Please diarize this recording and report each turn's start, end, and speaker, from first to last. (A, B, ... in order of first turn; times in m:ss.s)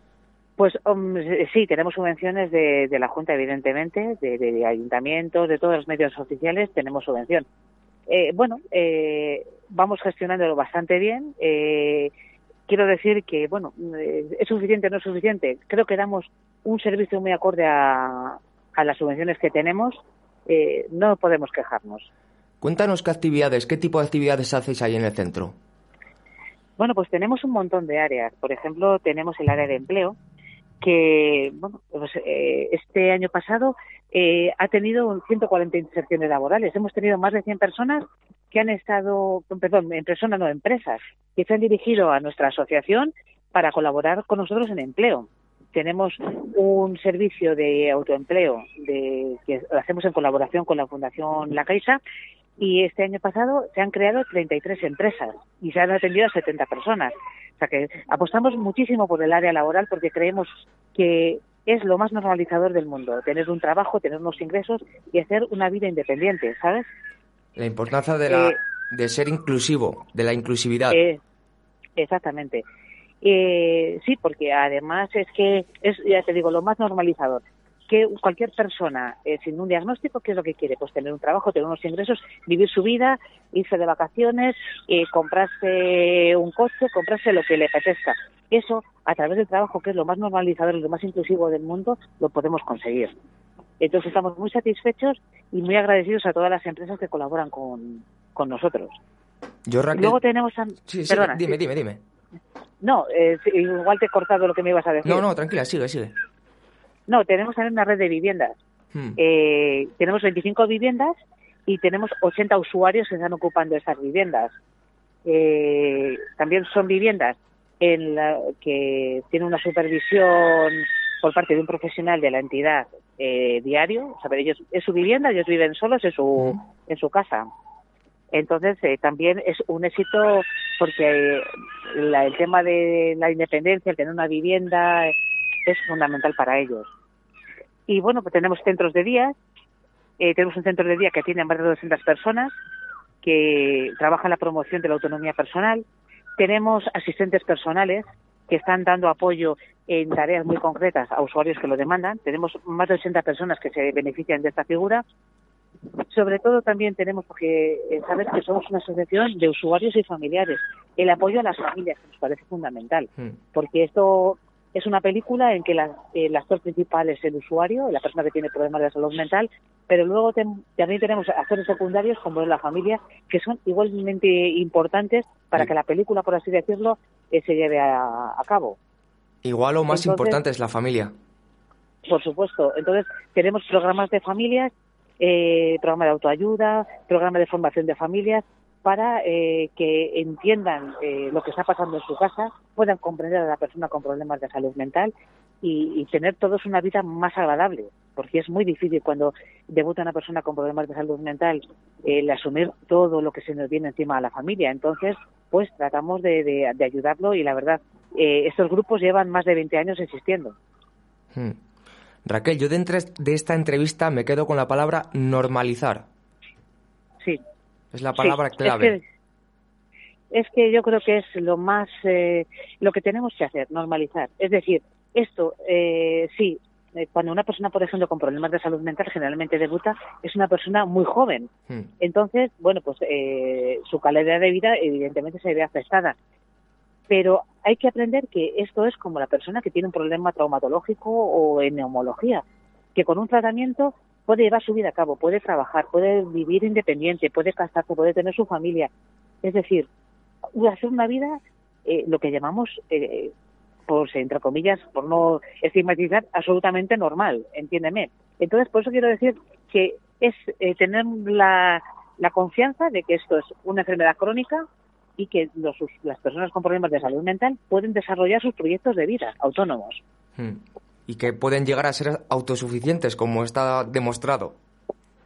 0:00.6-0:07.4 A
0:08.1-0:12.1 A
0:12.7-0:22.0 A
0:22.6-0:25.6 B
0:26.8-0:30.2 A
0:30.8-0:52.0 A
0:52.6-1:06.8 A
1:07.6-1:11.0 B
1:08.3-1:08.6 A
1:10.9-1:11.2 A
1:12.0-1:12.6 A
1:13.2-1:33.1 A
1:33.8-1:38.9 A
1:39.7-1:40.2 B
1:39.9-1:41.5 A
1:40.8-1:42.0 B
1:42.8-1:45.2 A
1:45.0-1:46.1 B
1:47.1-1:48.5 A
1:48.9-1:49.2 B
1:49.2-1:51.1 A
1:51.7-1:54.5 A
1:55.2-2:07.5 A
2:08.3-2:15.1 A
2:15.7-2:16.9 A
2:17.9-2:19.3 A
2:20.2-2:22.5 A
2:23.2-2:25.8 A
2:26.4-2:35.0 A
2:36.1-2:58.8 A
2:59.4-3:01.1 B
2:59.9-3:00.4 A
3:02.1-3:30.5 A
3:32.2-3:36.0 B
3:37.9-3:39.0 B
3:38.2-3:39.0 A
3:40.3-3:51.5 A
3:52.0-3:56.1 A
3:57.1-4:02.4 A
4:02.9-4:08.9 A
4:09.4-4:09.9 A
4:10.5-4:13.3 A
4:13.9-4:24.6 A
4:25.2-4:30.0 A
4:30.4-4:34.6 B